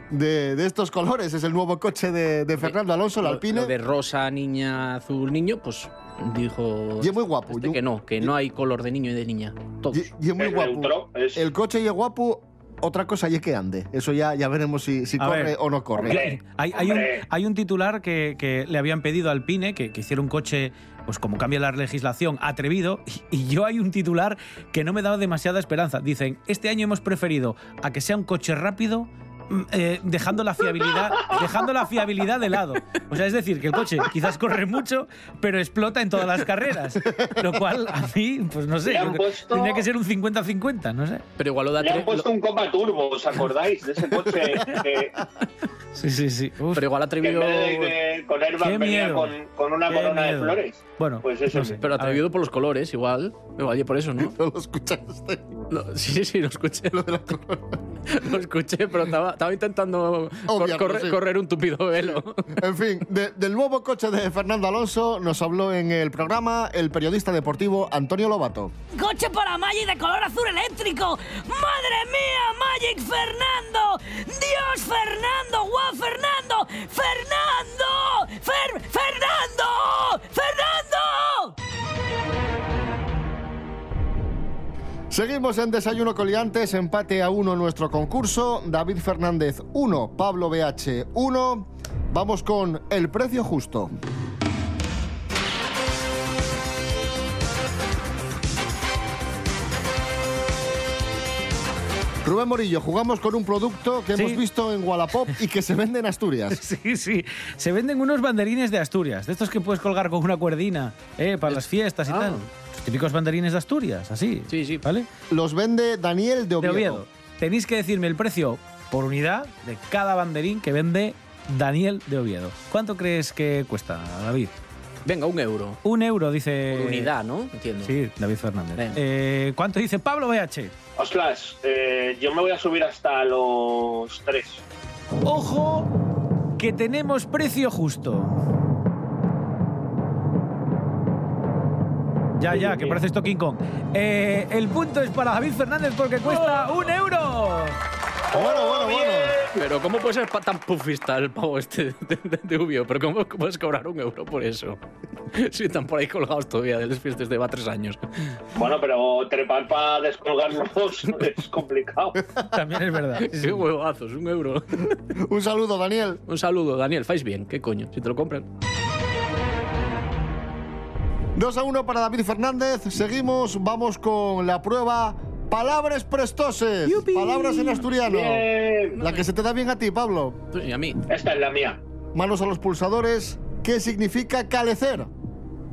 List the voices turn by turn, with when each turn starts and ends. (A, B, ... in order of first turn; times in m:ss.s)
0:00.1-0:03.8 A
0:02.6-0:10.1 B
0:07.0-0:08.3 A
0:09.9-0:16.2 A
0:10.4-0:11.4 C
0:15.2-0:41.2 D
0:16.0-0:17.2 C
0:38.8-0:39.8 C
0:41.4-0:42.3 B
0:41.8-0:45.2 C
0:46.0-0:46.8 D
0:46.7-0:48.0 B
0:47.2-0:51.8 C
0:48.6-0:49.4 D
0:49.9-0:52.2 D
0:51.7-0:54.3 B
0:54.2-0:55.5 A
0:55.7-0:57.1 B
0:56.9-0:57.8 A
0:58.1-1:02.5 B
1:00.5-1:01.2 A
1:02.1-1:08.7 A
1:08.9-1:21.5 E
1:25.1-1:33.9 A
1:42.2-1:46.6 A
1:44.2-1:44.4 D
1:46.5-1:55.1 D
1:51.5-1:52.5 B
1:54.5-1:54.8 B
1:55.3-1:57.0 A
1:56.6-2:04.5 D
2:05.0-2:05.8 B
2:05.8-2:07.1 D
2:06.7-2:07.9 B
2:07.8-2:10.7 D
2:11.0-2:14.6 C
2:15.2-2:15.9 D
2:16.6-2:18.4 D
2:22.4-2:27.8 D
2:26.3-2:26.6 B
2:28.3-2:29.4 A
2:28.3-2:29.5 C
2:29.6-2:34.8 B
2:35.3-2:38.0 B
2:38.5-2:42.2 C
2:42.5-2:43.6 D
2:43.2-2:44.9 B
2:45.2-2:46.2 A
2:46.3-2:48.5 B
2:51.4-3:00.4 A
2:56.9-2:57.8 B
2:58.0-2:59.0 C
2:59.0-2:59.2 B
3:00.5-3:01.0 B
3:01.1-3:01.8 C
3:02.1-3:05.1 A